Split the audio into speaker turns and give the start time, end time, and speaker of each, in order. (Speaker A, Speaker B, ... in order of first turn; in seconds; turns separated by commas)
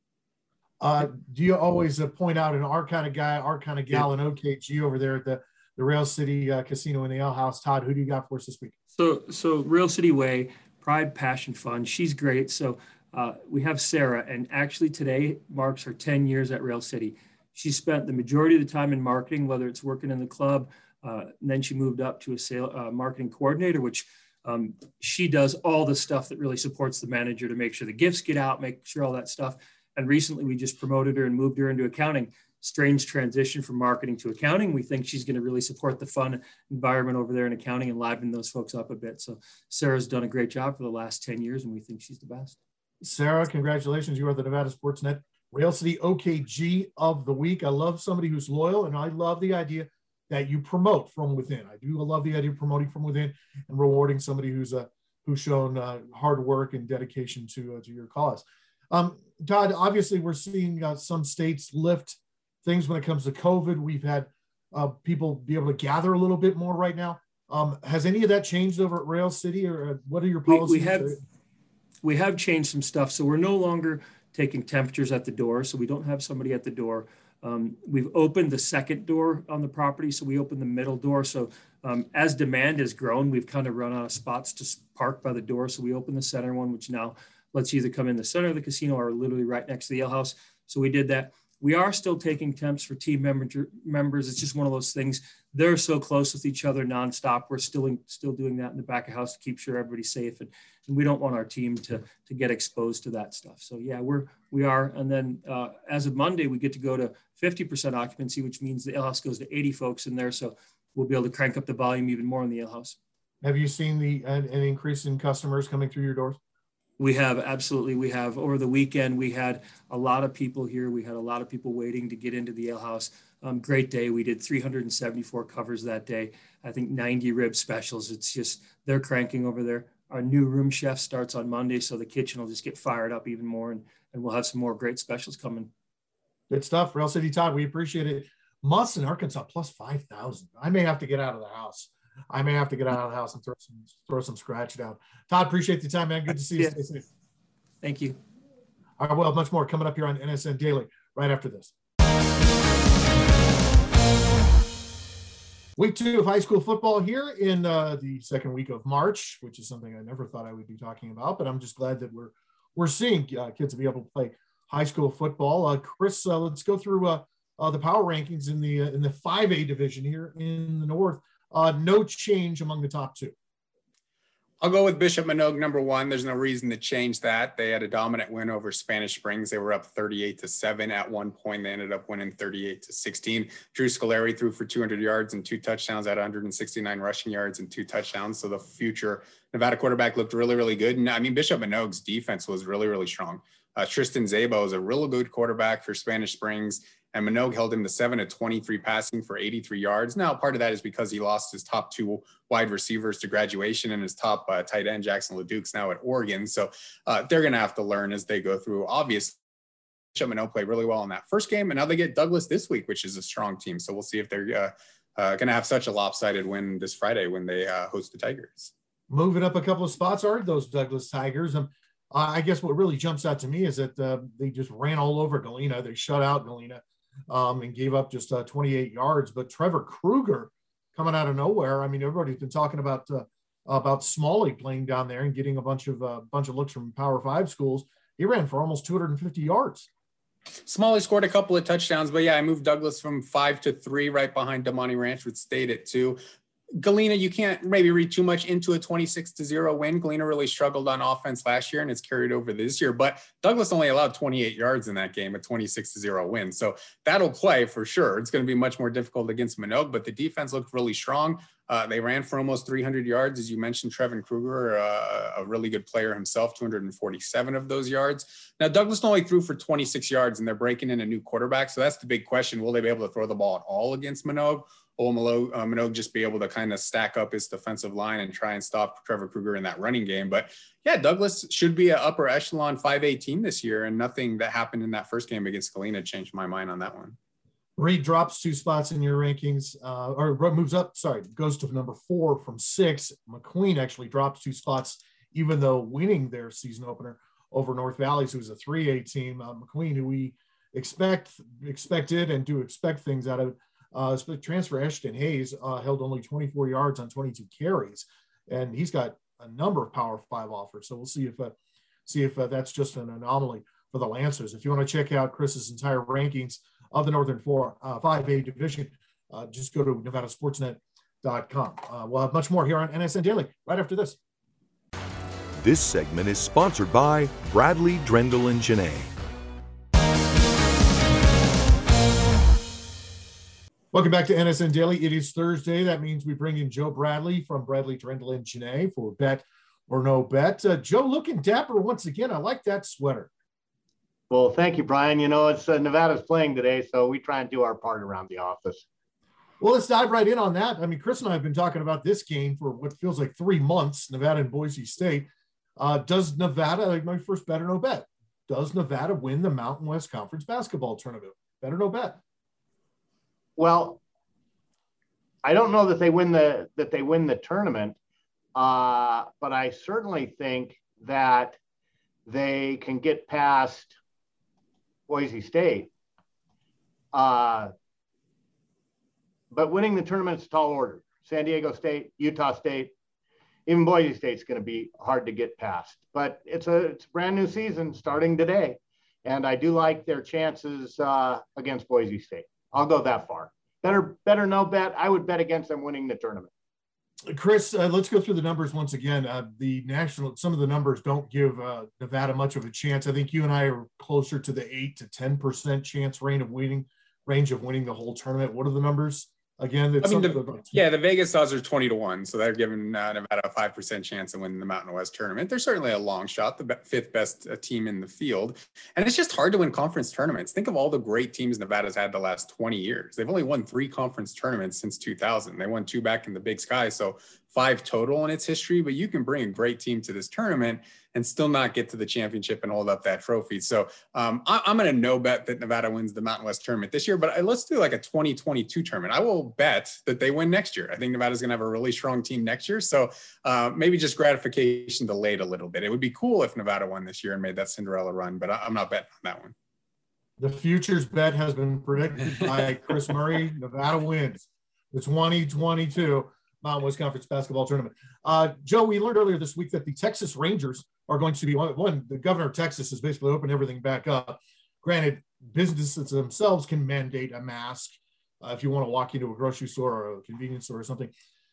Speaker A: 0.8-8.7, Speaker B: 8.9-42.6, Speaker A: 43.0-71.2, Speaker B: 70.5-71.2, Speaker B: 72.0-113.0, Speaker A: 113.4-116.4, Speaker B: 117.0-135.7, Speaker A: 136.5-147.1, Speaker B: 147.8-148.2, Speaker A: 149.0-151.7, Speaker A: 155.8-173.3, Speaker C: 174.6-209.4, Speaker C: 210.1-218.7, Speaker A: 219.1-239.9, Speaker C: 240.6-246.2, Speaker C: 246.8-287.2, Speaker A: 287.8-311.5, Speaker A: 312.1-324.2, Speaker D: 325.6-329.1, Speaker A: 333.9-343.3, Speaker E: 344.3-348.9, Speaker A: 349.6-362.2, Speaker E: 363.6-364.0, Speaker E: 365.4-367.9, Speaker E: 368.5-371.6, Speaker E: 372.2-373.9, Speaker E: 375.1-375.9, Speaker E: 377.1-377.7, Speaker E: 379.5-382.9, Speaker E: 383.6-396.5, Speaker A: 397.2-410.7, Speaker C: 410.0-449.5, Speaker A: 450.4-471.1